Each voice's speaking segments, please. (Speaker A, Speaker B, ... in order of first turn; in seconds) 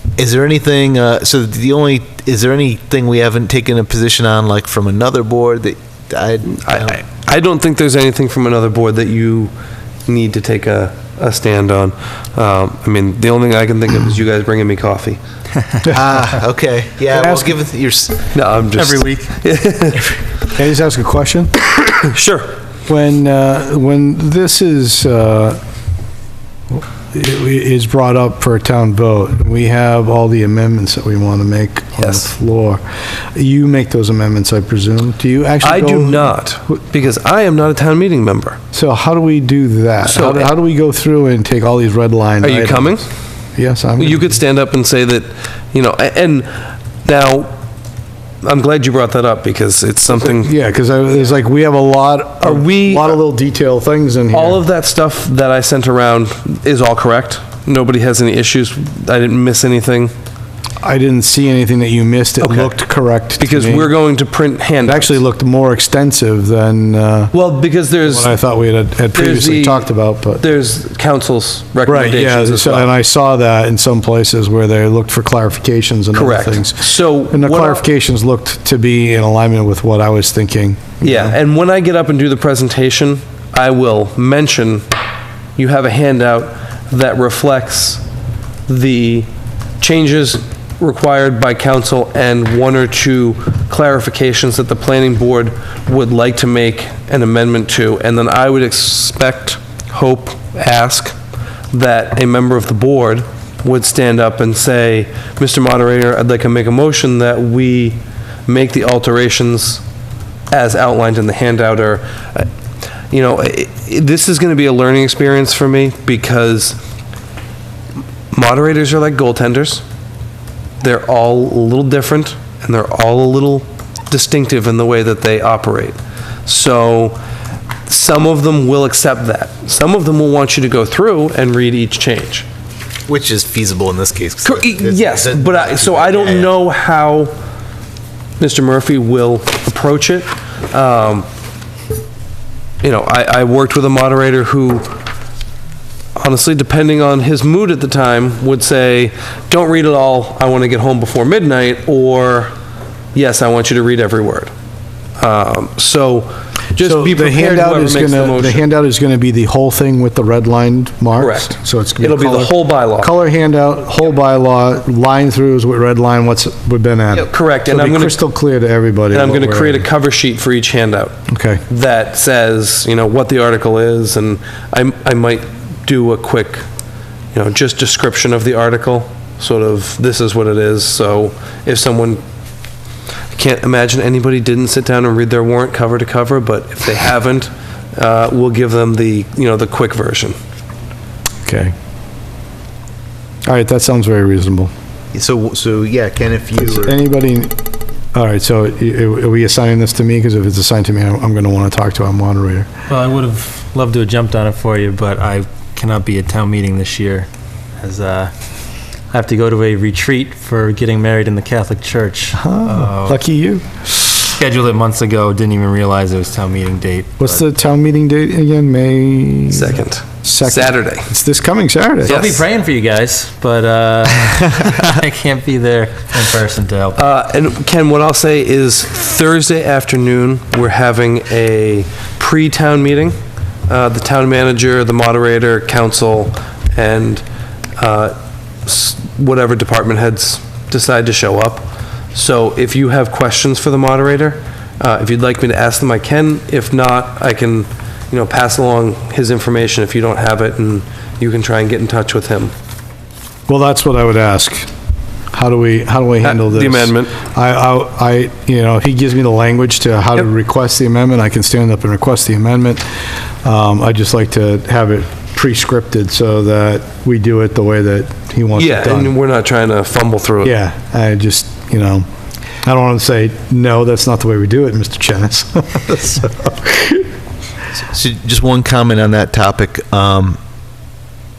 Speaker A: 0.2-7.0, 15.8-18.3, 133.1-136.6, 195.1-196.9, 277.9-280.4
Speaker B: 6.5-9.5, 10.1-15.2, 18.3-20.1, 22.0-22.5, 32.0-32.3, 35.6-38.6, 40.0-40.5, 42.4-43.0, 44.0-46.5, 47.0-47.5, 48.4-50.5, 52.4-53.2, 54.3-60.1, 62.4-62.8, 63.4-65.2, 67.3-68.3, 69.1-72.9, 76.1-77.8, 81.0-84.8, 85.5-88.0, 88.7-89.3, 89.8-101.2, 101.7-109.8, 110.5-112.5, 113.1-116.8, 118.3-119.8, 120.8-127.2, 127.9-132.5, 134.4-137.3, 138.4-141.3, 142.8-144.9, 146.2-152.5, 153.1-154.5, 155.2-158.6, 161.2-163.1, 167.3-168.2, 169.1-171.2, 171.7-176.6, 177.3-182.2, 183.3-190.3, 219.5-221.1, 222.0-222.4, 226.9-233.2, 233.7-237.2, 237.8-252.5, 256.2-257.2, 268.5-270.5
Speaker C: 17.1-17.6, 20.5-21.5, 22.9-25.6, 26.7-32.8, 33.3-36.4, 38.7-43.0, 43.5-44.3, 50.1-54.6, 60.8-63.9, 64.8-67.3, 68.0-70.4, 71.8-81.3, 156.8-169.8, 171.3-171.6, 191.4-191.7, 193.5-194.7, 196.6-197.5, 198.1-202.7, 212.3-213.8, 217.2-222.2, 253.5-254.7, 255.3-262.8, 263.4-269.1, 270.4-272.0, 272.6-277.0
Speaker D: 18.7-19.3, 202.9-207.3, 207.8-208.3, 209.1-213.2, 214.2-217.4, 222.0-227.0